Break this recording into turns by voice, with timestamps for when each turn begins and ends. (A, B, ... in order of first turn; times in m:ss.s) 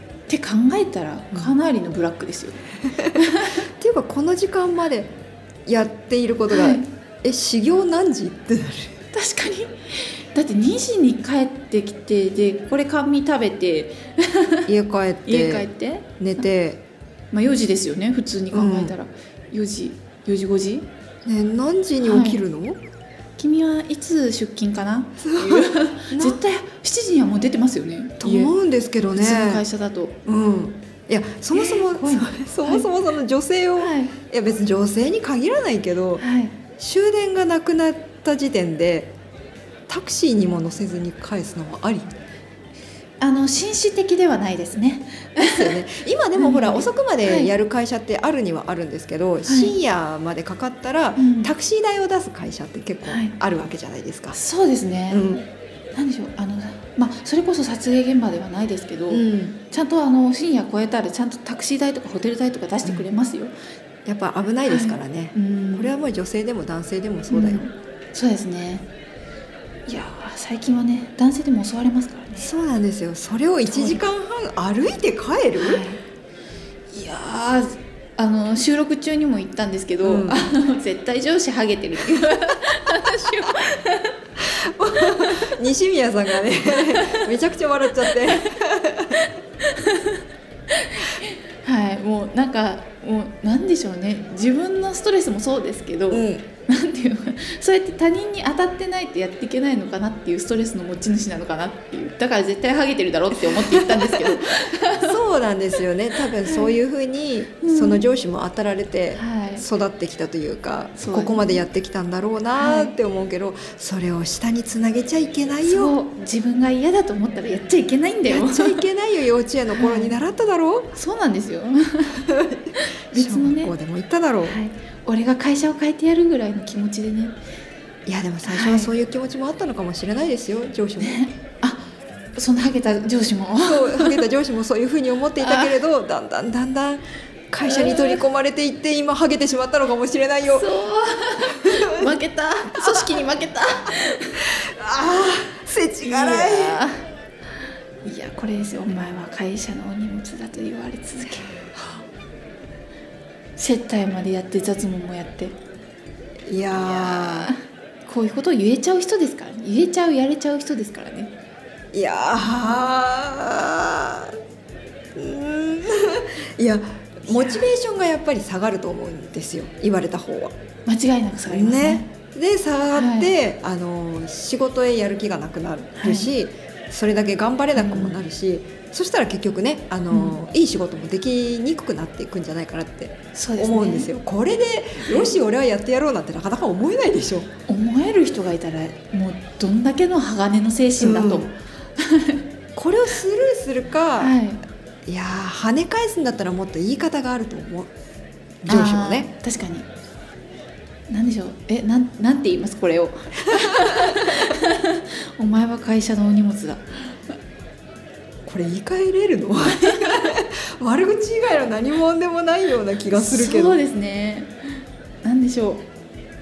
0:00.3-0:03.6 A
0:03.8-0:05.1 B
0:05.6-0:09.0 B
0:06.5-0:06.9 A
0:09.1-0:14.6 A
0:14.7-0:15.7 B
0:15.3-0:16.4 A
0:16.2-0:16.8 B
0:17.3-0:20.9 A
0:18.5-0:18.9 B
0:21.2-0:22.8 B
0:22.0-0:22.4 A
0:23.4-0:28.5 A
0:25.2-0:26.4 B
0:28.2-0:29.6 B
0:29.1-0:30.2 A
0:30.2-0:36.2 B
0:31.5-0:32.9 A
0:33.8-0:34.1 A
0:36.2-0:36.6 A
0:36.8-0:39.1 B
0:39.9-0:42.1 B
0:43.2-0:45.8 A
0:45.4-0:54.4 B
0:46.4-0:47.5 A
0:49.4-0:49.8 A
0:51.2-0:51.5 A
0:53.0-0:53.3 A
0:54.3-0:55.4 A
0:55.1-0:55.4 B
0:55.9-1:03.5 A
0:59.1-0:59.6 B
1:04.0-1:07.7 B
1:04.7-1:05.9 A
1:07.3-1:08.9 A
1:09.9-1:12.5 A
1:12.4-1:15.8 B
1:13.6-1:14.0 A
1:15.6-1:16.0 A
1:16.9-1:24.2 A
1:20.0-1:20.5 B
1:24.5-1:29.2 B
1:25.0-1:25.4 A
1:26.9-1:27.3 A
1:29.2-1:45.2 A
1:36.1-1:36.4 B
1:43.5-1:55.9 B
1:46.2-1:46.7 A
1:47.6-1:48.0 A
1:49.1-1:49.6 A
1:51.0-1:51.6 A
1:52.6-1:52.9 A
1:55.6-1:58.8 A
1:58.3-2:00.9 B
1:59.7-2:00.2 A
2:00.9-2:02.2 A
2:02.2-2:04.6 B
2:02.8-2:03.7 A
2:04.4-2:07.4 A
2:08.0-2:11.2 B
2:08.4-2:08.9 A
2:11.0-2:14.2 A
2:13.6-2:20.7 B
2:15.4-2:15.8 A
2:17.6-2:18.2 A
2:20.5-2:24.4 A
2:21.6-2:22.1 B
2:22.8-2:23.2 B
2:24.5-2:26.8 B
2:26.0-2:27.0 A
2:28.0-2:31.5 A
2:33.6-2:35.6 A
2:36.5-2:37.5 B
2:36.8-2:41.3 A
2:41.9-2:44.4 B
2:45.1-2:50.6 B
2:47.3-2:47.6 A
2:50.8-2:52.1 A
2:51.5-3:07.5 B
2:52.9-2:53.3 A
2:56.0-2:56.3 A
2:57.8-2:58.2 A
3:00.1-3:00.4 A
3:03.3-3:04.1 A
3:05.0-3:05.3 A
3:07.7-3:12.4 A
3:11.0-3:11.5 B
3:12.8-3:14.4 B
3:14.2-3:14.6 A
3:15.0-3:17.9 B
3:18.6-3:19.3 B
3:18.6-3:19.9 A
3:21.1-3:27.3 A
3:23.5-3:24.5 B
3:28.4-3:33.8 B
3:29.6-3:30.4 A
3:33.1-3:35.9 A